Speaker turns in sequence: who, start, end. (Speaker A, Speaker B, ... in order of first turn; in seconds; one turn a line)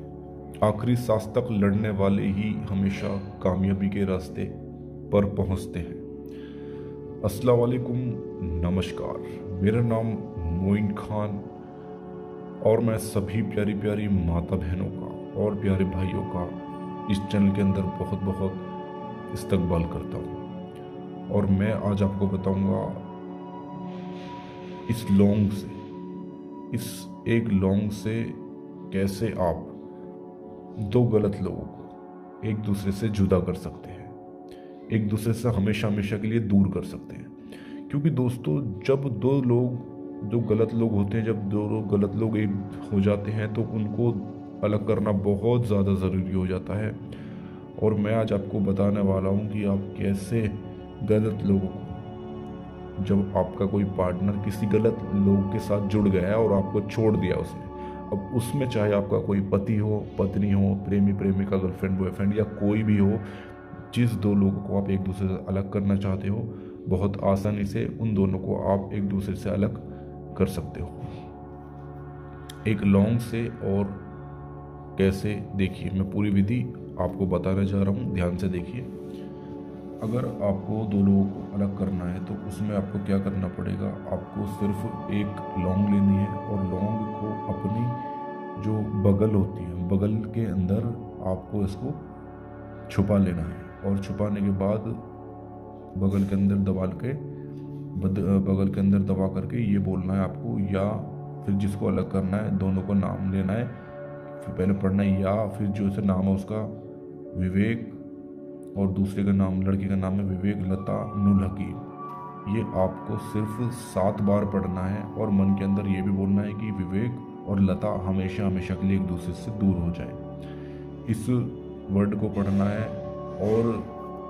Speaker A: 0.6-4.5
Speaker A: 5.1-6.0
Speaker A: 7.2-11.4
Speaker A: 12.6-16.6
Speaker A: 17.1-18.6
Speaker A: 19.3-20.4
Speaker A: 21.3-23.1
Speaker A: 24.9-25.8
Speaker A: 26.7-29.8
Speaker A: 30.8-34.1
Speaker A: 34.9-37.3
Speaker A: 37.9-47.0
Speaker A: 47.8-52.0
Speaker A: 53.0-63.2
Speaker A: 63.9-71.1
Speaker A: 72.6-74.0
Speaker A: 75.0-78.9
Speaker A: 80.0-88.0
Speaker A: 88.5-92.0
Speaker A: 92.9-95.0
Speaker A: 95.9-97.2
Speaker A: 97.9-103.7
Speaker A: 104.4-106.7
Speaker A: 107.3-108.0
Speaker A: 108.8-111.8
Speaker A: 112.4-120.2
Speaker A: 121.0-123.9